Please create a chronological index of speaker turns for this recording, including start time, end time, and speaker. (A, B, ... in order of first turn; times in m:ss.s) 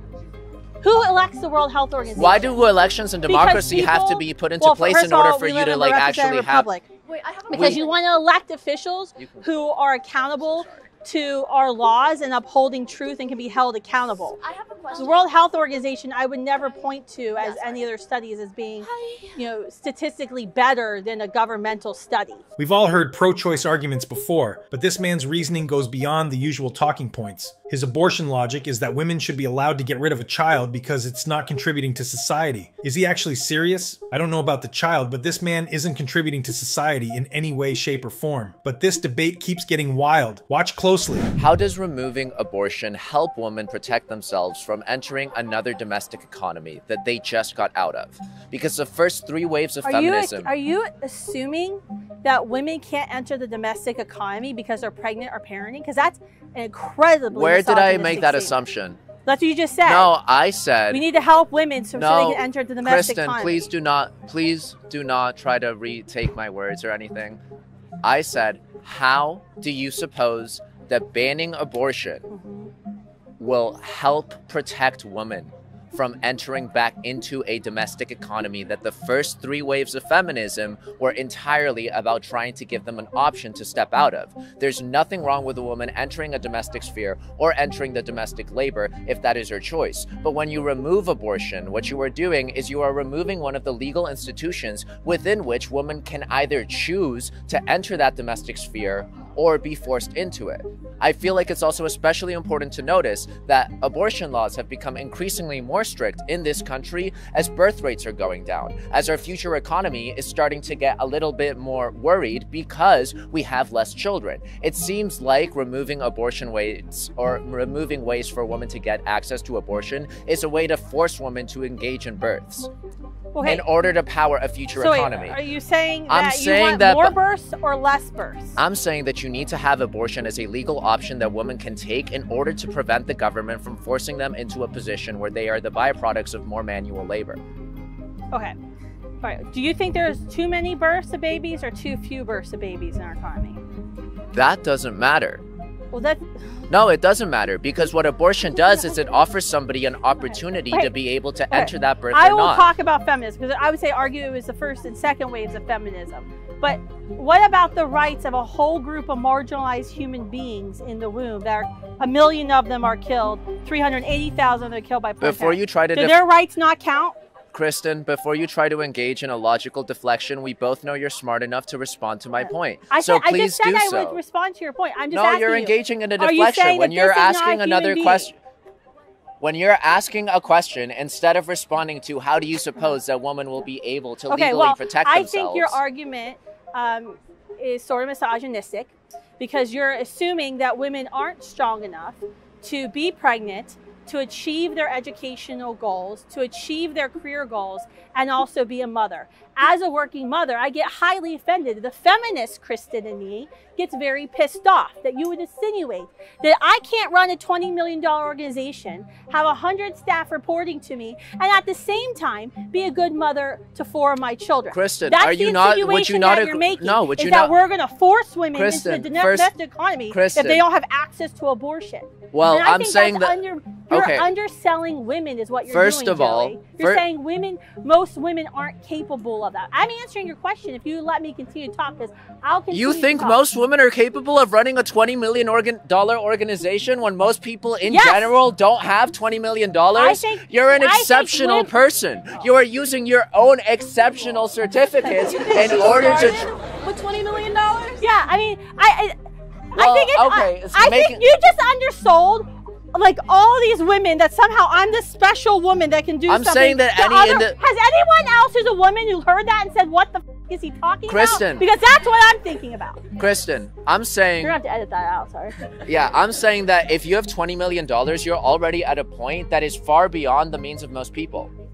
0:00.8-0:06.9 A
0:02.2-0:06.7 B
0:07.0-0:08.0 C
0:07.5-0:22.4 A
0:07.5-0:07.9 B
0:09.2-0:09.7 B
0:10.4-0:10.8 B
0:14.4-0:15.5 C
0:17.4-0:17.9 C
0:18.8-0:19.3 C
0:22.6-0:41.3 D
0:41.4-0:50.5 B
0:49.8-0:58.6 A
0:57.3-0:59.0 B
0:59.2-1:00.1 A
0:59.8-1:01.0 B
1:00.9-1:03.7 A
1:02.0-1:07.4 B
1:08.0-1:12.2 B
1:12.3-1:12.7 A
1:13.4-2:02.7 B
2:03.3-2:03.7 A
2:03.4-2:05.4 B
2:04.8-2:08.6 A
2:06.1-2:07.2 B
2:08.6-2:17.4 B
2:19.2-2:23.6 A
2:24.3-2:25.4 B
2:25.9-2:26.2 A
2:26.7-2:32.7 B
2:28.5-2:29.3 A
2:31.5-2:47.2 A
2:45.2-2:46.2 B
2:47.5-2:54.2 B
2:52.4-2:58.3 A
2:55.1-2:58.4 B
2:59.4-3:05.8 B
3:04.3-3:53.4 A
3:34.7-3:37.5 B
3:38.5-3:39.5 B
3:40.1-3:40.6 B
3:42.3-3:43.4 B
3:43.9-3:44.3 B
3:45.7-3:47.0 B
3:52.7-4:06.5 B
3:57.9-3:58.4 A
3:59.9-4:01.7 A
4:05.0-4:09.2 A
4:06.8-4:08.0 C
4:09.8-4:23.1 A
4:09.8-4:11.2 B
4:16.3-4:17.6 B
4:21.1-4:21.7 B
4:23.2-4:24.5 B
4:24.4-4:25.6 A
4:25.9-4:31.5 B